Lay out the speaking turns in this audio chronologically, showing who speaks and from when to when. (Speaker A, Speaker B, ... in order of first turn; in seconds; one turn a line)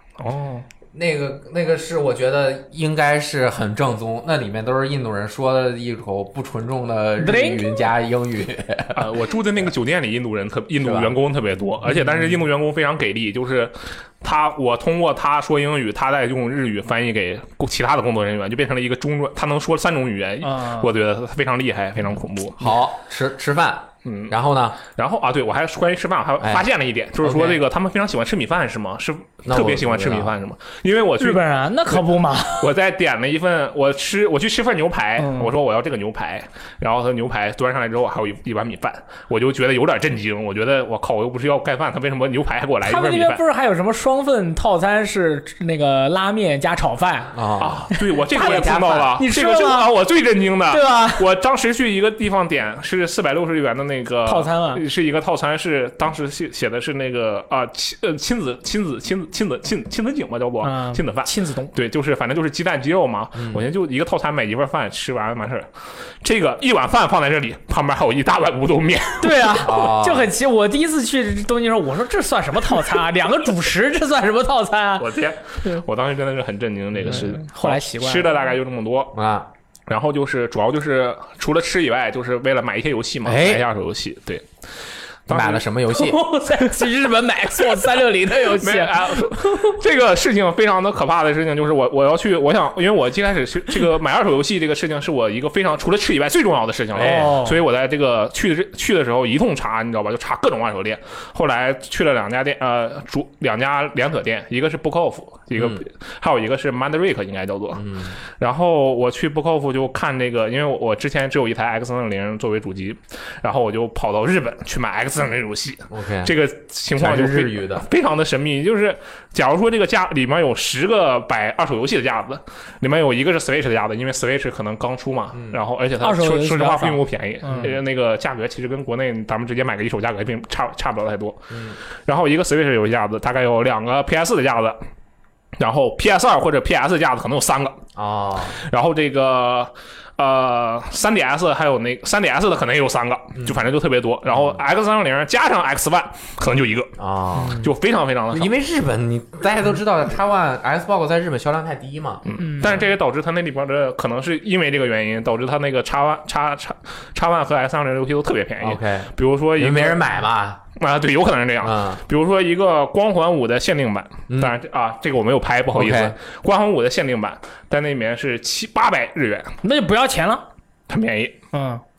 Speaker A: 0.2-0.7
Speaker B: 0.9-9.2
Speaker C: 7.2-7.7
Speaker A: 8.9-22.8
Speaker B: 10.8-11.1
Speaker C: 20.4-20.9
Speaker B: 22.6-24.8
Speaker A: 24.0-32.0
Speaker B: 26.4-26.7
Speaker B: 27.2-27.6
Speaker B: 29.4-30.3
Speaker C: 31.2-32.7
Speaker A: 32.6-43.4
Speaker C: 35.2-35.5
Speaker C: 42.8-47.4
Speaker B: 47.3-49.0
Speaker A: 47.6-65.7
Speaker C: 47.9-49.9
Speaker C: 50.7-51.2
Speaker C: 54.2-54.8
Speaker C: 60.6-61.7
Speaker B: 63.3-63.7
Speaker A: 66.2-69.4
Speaker C: 69.2-75.1
Speaker B: 69.6-70.3
Speaker A: 75.0-79.1
Speaker B: 77.0-77.3
Speaker C: 77.0-78.4
Speaker B: 79.1-79.5
Speaker A: 79.9-84.5
Speaker B: 83.2-83.6
Speaker A: 85.3-85.6
Speaker B: 85.3-86.2
Speaker C: 85.9-89.7
Speaker A: 88.4-107.8
Speaker B: 96.9-97.3
Speaker C: 97.0-97.6
Speaker B: 105.5-105.8
Speaker B: 107.7-108.2
Speaker A: 108.4-131.5
Speaker B: 115.9-116.3
Speaker B: 117.0-117.8
Speaker B: 125.3-125.6
Speaker C: 126.0-127.7
Speaker B: 131.5-131.8
Speaker A: 132.0-134.8
Speaker A: 135.6-137.8
Speaker B: 137.9-138.6
Speaker A: 138.5-146.9
Speaker B: 143.3-143.6
Speaker B: 144.3-144.6
Speaker B: 147.0-147.7
Speaker C: 147.4-147.7
Speaker A: 147.6-148.5
Speaker B: 148.3-152.7
Speaker A: 152.2-160.1
Speaker C: 152.4-152.8
Speaker B: 158.6-160.6
Speaker A: 160.8-169.5
Speaker B: 161.6-162.0
Speaker B: 164.3-164.6
Speaker B: 165.7-166.2
Speaker C: 169.6-170.4
Speaker A: 170.9-171.4
Speaker C: 171.5-171.8